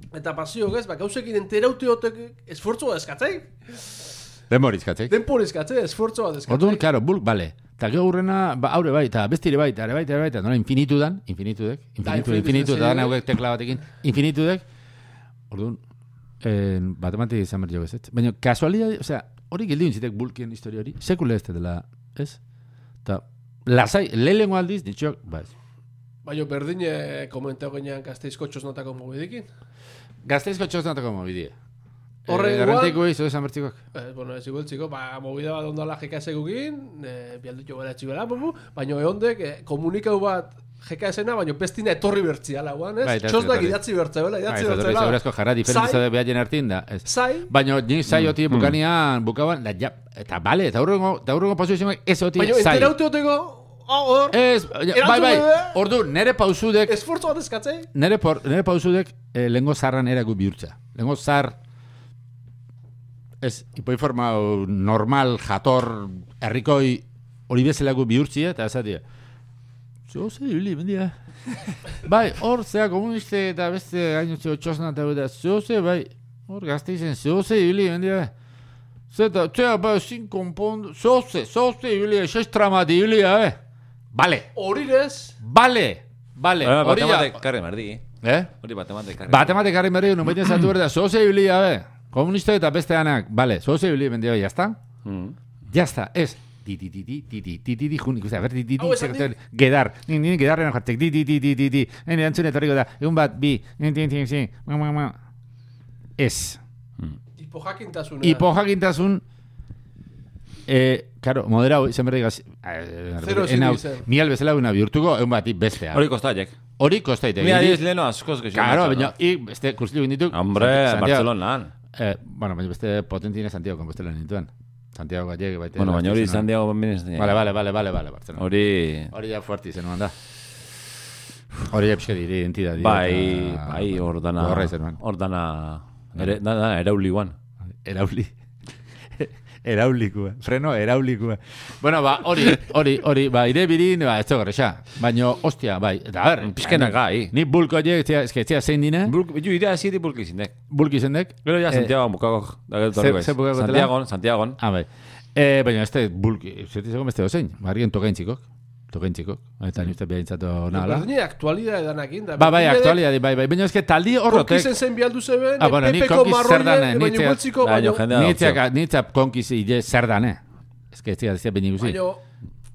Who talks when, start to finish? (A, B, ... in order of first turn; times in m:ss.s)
0:00.1-0:04.1 A
0:04.5-0:05.2 B
0:05.1-0:06.8 A
0:06.5-0:14.6 B
0:12.0-0:13.2 A
0:15.5-0:15.8 B
0:16.4-0:22.4 B
0:23.0-0:25.5 B
0:26.2-0:29.5 A
0:30.2-0:31.5 B
0:32.3-0:33.8 B
0:32.3-0:33.0 A
0:34.0-0:46.0 A
0:43.0-0:43.8 B
0:44.5-0:53.0 B
0:47.0-0:47.5 A
0:48.1-0:48.8 C
0:52.4-0:55.8 A
0:54.3-0:57.0 B
0:56.9-0:57.9 A
0:57.9-1:01.6 B
1:03.4-1:09.0 B
1:10.1-1:11.2 B
1:12.0-1:18.3 B
1:19.1-1:23.6 B
1:24.1-1:24.5 B
1:24.6-1:25.4 A
1:25.4-1:27.4 B
1:26.6-1:28.1 C
1:28.2-1:28.5 B
1:28.6-1:29.6 C
1:29.3-1:34.8 B
1:35.0-1:35.4 C
1:35.7-1:45.2 B
1:38.8-1:39.3 A
1:46.2-1:46.6 B
1:47.4-1:48.5 A
1:48.2-1:49.2 B
1:50.7-1:56.1 B
1:53.2-1:54.1 A
1:55.9-1:56.6 C
1:56.8-1:57.8 B
1:57.4-1:59.1 C
1:58.5-2:01.3 B
2:00.3-2:01.7 C
2:01.9-2:06.5 B
2:05.8-2:07.4 C
2:07.2-2:08.5 B
2:08.4-2:09.1 C
2:09.1-2:10.2 B
2:11.7-2:15.0 B
2:12.8-2:17.4 C
2:17.8-2:18.3 B
2:19.2-2:29.1 B
2:26.4-2:27.3 C
2:29.0-2:30.6 C
2:30.7-2:31.9 B
2:31.4-2:34.6 C
2:33.0-2:33.9 B
2:34.6-2:41.1 B
2:40.7-2:43.0 A
2:42.4-2:44.7 B
2:44.3-2:48.1 A
2:45.6-2:47.4 B
2:47.6-2:48.6 C
2:48.1-2:50.4 B
2:50.9-2:52.0 B
2:51.8-2:52.2 A